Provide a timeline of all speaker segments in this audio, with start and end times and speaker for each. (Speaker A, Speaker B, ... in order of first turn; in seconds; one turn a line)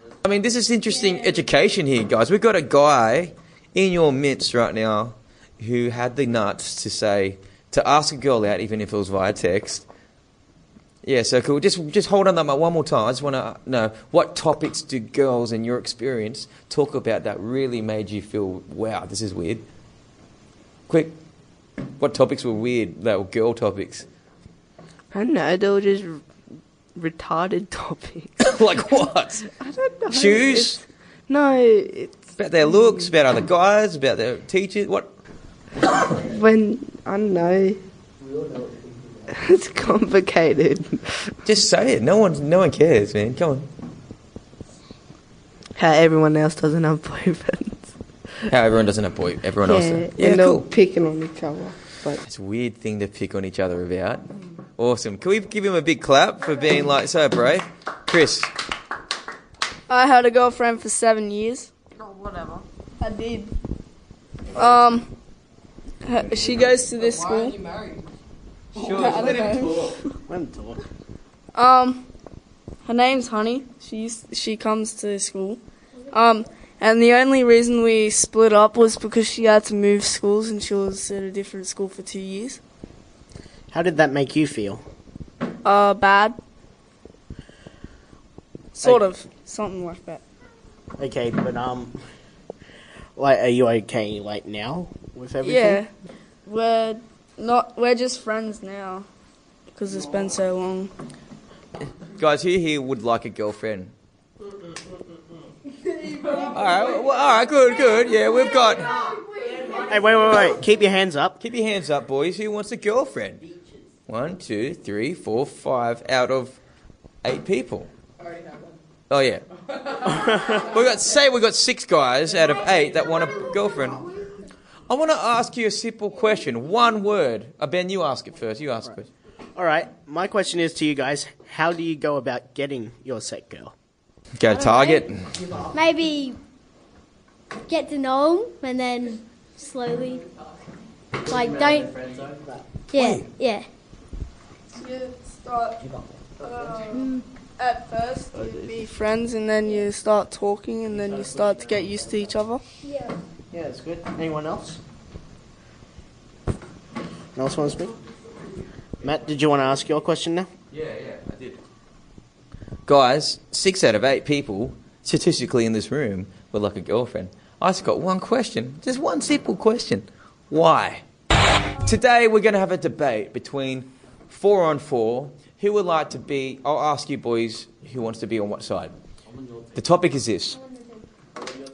Speaker A: 0.2-9.9
Speaker A: 11.0-19.6
Speaker A: 20.9-21.1
Speaker A: 22.0-24.1
Speaker B: 25.1-26.2
Speaker B: 26.9-28.5
Speaker A: 28.4-29.5
Speaker B: 29.5-32.3
Speaker A: 30.1-30.8
Speaker A: 32.4-35.1
Speaker B: 36.2-37.8
Speaker B: 39.3-41.3
Speaker A: 41.5-43.7
Speaker B: 45.8-47.9
Speaker A: 48.5-50.7
Speaker B: 49.6-52.2
Speaker A: 52.3-54.2
Speaker A: 54.8-58.5
Speaker C: 59.9-61.7
Speaker C: 63.0-63.5
Speaker C: 64.6-65.1
Speaker C: 66.0-67.6
Speaker C: 68.8-69.9
Speaker A: 68.8-70.0
Speaker D: 70.3-70.8
Speaker C: 71.5-72.1
Speaker C: 72.8-75.6
Speaker C: 76.1-82.6
Speaker D: 83.7-84.8
Speaker C: 85.6-86.4
Speaker C: 88.7-90.2
Speaker D: 91.0-92.0
Speaker D: 93.2-95.8
Speaker C: 95.4-95.9
Speaker C: 96.5-99.1
Speaker C: 99.7-100.9
Speaker A: 102.0-103.9
Speaker A: 106.4-109.0
Speaker D: 109.9-111.4
Speaker A: 111.4-113.4
Speaker A: 114.1-116.6
Speaker A: 117.2-117.9
Speaker A: 119.1-119.5
Speaker A: 120.0-124.0
Speaker A: 124.9-129.1
Speaker D: 129.6-133.7
Speaker A: 134.4-135.2
Speaker E: 134.5-135.0
Speaker E: 135.7-136.4
Speaker E: 137.7-140.3
Speaker E: 141.3-141.9
Speaker E: 142.9-143.7
Speaker A: 143.0-143.3
Speaker C: 144.8-145.8
Speaker C: 146.4-152.6
Speaker E: 146.9-147.2
Speaker E: 152.8-153.1
Speaker D: 153.5-154.8
Speaker D: 157.4-157.9
Speaker D: 159.0-160.5
Speaker A: 160.7-161.6
Speaker A: 162.9-171.0
Speaker A: 171.8-178.9
Speaker A: 179.8-180.6
Speaker E: 180.7-181.0